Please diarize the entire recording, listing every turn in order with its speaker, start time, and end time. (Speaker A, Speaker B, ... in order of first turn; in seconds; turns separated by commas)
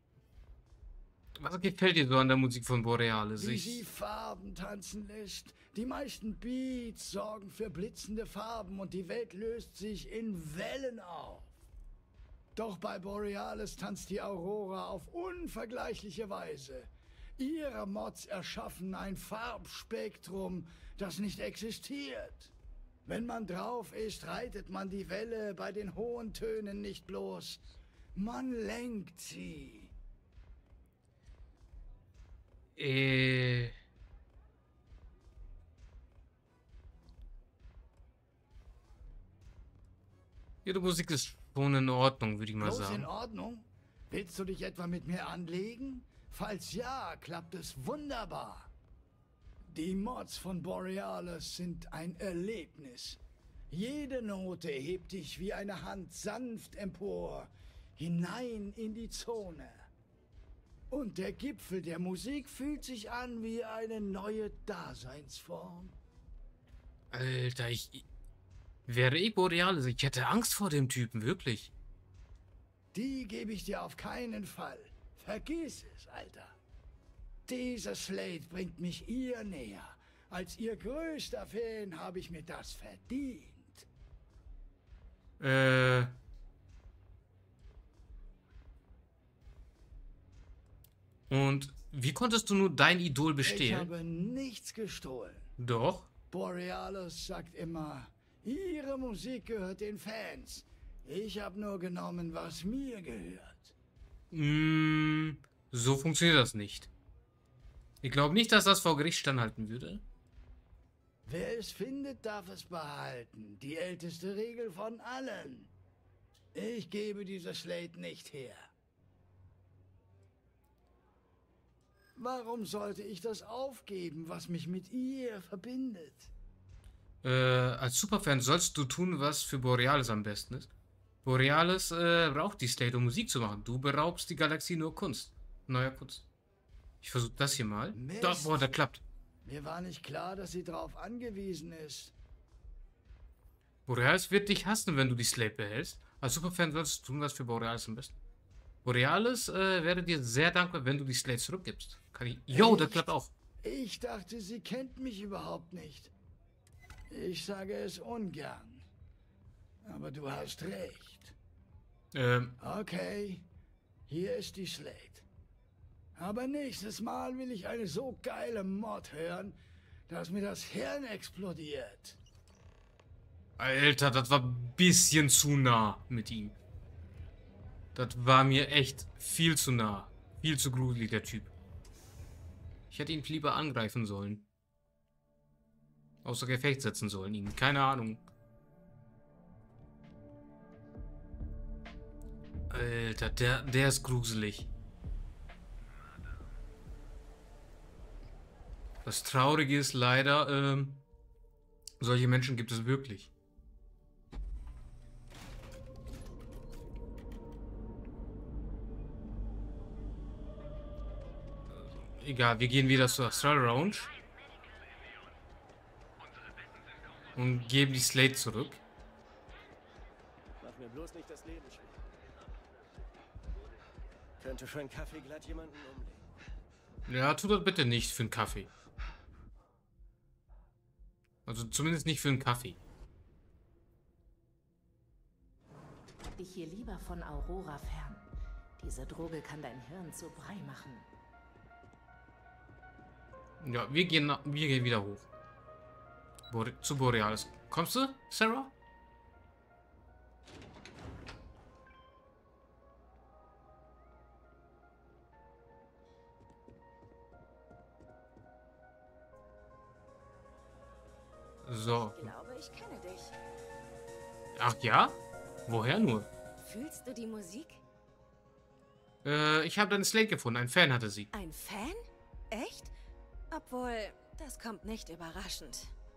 Speaker A: 1.4-3.8, Speaker B: 3.4-11.5, Speaker B: 12.5-22.5, Speaker B: 23.1-29.9, Speaker A: 32.8-33.7, Speaker A: 40.6-43.1, Speaker B: 42.6-48.7, Speaker B: 49.6-53.2, Speaker B: 53.7-59.9, Speaker B: 60.9-66.0, Speaker A: 67.1-68.0, Speaker A: 68.9-71.7, Speaker B: 72.9-76.5, Speaker B: 77.5-83.8, Speaker A: 85.4-86.1, Speaker A: 91.3-93.9, Speaker B: 93.4-95.5, Speaker A: 95.6-96.1, Speaker B: 96.3-103.7, Speaker A: 104.3-106.9, Speaker A: 108.0-110.0, Speaker B: 111.2-115.7, Speaker B: 116.5-118.7, Speaker B: 122.2-126.3, Speaker A: 127.2-130.7, Speaker A: 131.2-136.2, Speaker A: 137.0-139.0, Speaker B: 137.9-138.6, Speaker B: 139.4-142.1, Speaker A: 143.8-148.1, Speaker A: 148.8-153.3, Speaker B: 152.5-153.1, Speaker B: 153.6-156.1, Speaker B: 157.1-158.8, Speaker B: 159.8-161.3, Speaker A: 162.1-162.6, Speaker B: 162.6-163.4, Speaker B: 164.1-165.2, Speaker B: 166.2-169.6, Speaker B: 170.1-172.2, Speaker A: 173.6-176.6, Speaker A: 177.9-181.5, Speaker A: 182.9-184.4, Speaker A: 186.2-188.2, Speaker A: 192.7-194.7, Speaker A: 199.0-201.0, Speaker A: 202.0-203.3, Speaker A: 211.8-214.1, Speaker A: 217.3-218.8, Speaker C: 220.6-221.9, Speaker C: 224.4-226.2, Speaker A: 227.1-228.7, Speaker A: 231.4-232.8, Speaker D: 236.3-238.3, Speaker D: 238.8-241.1, Speaker A: 243.6-245.2, Speaker A: 246.5-248.7, Speaker A: 261.6-262.3, Speaker E: 261.9-263.3, Speaker A: 264.5-266.3, Speaker E: 266.6-267.8, Speaker A: 269.2-271.3, Speaker E: 271.3-272.9, Speaker E: 273.5-275.9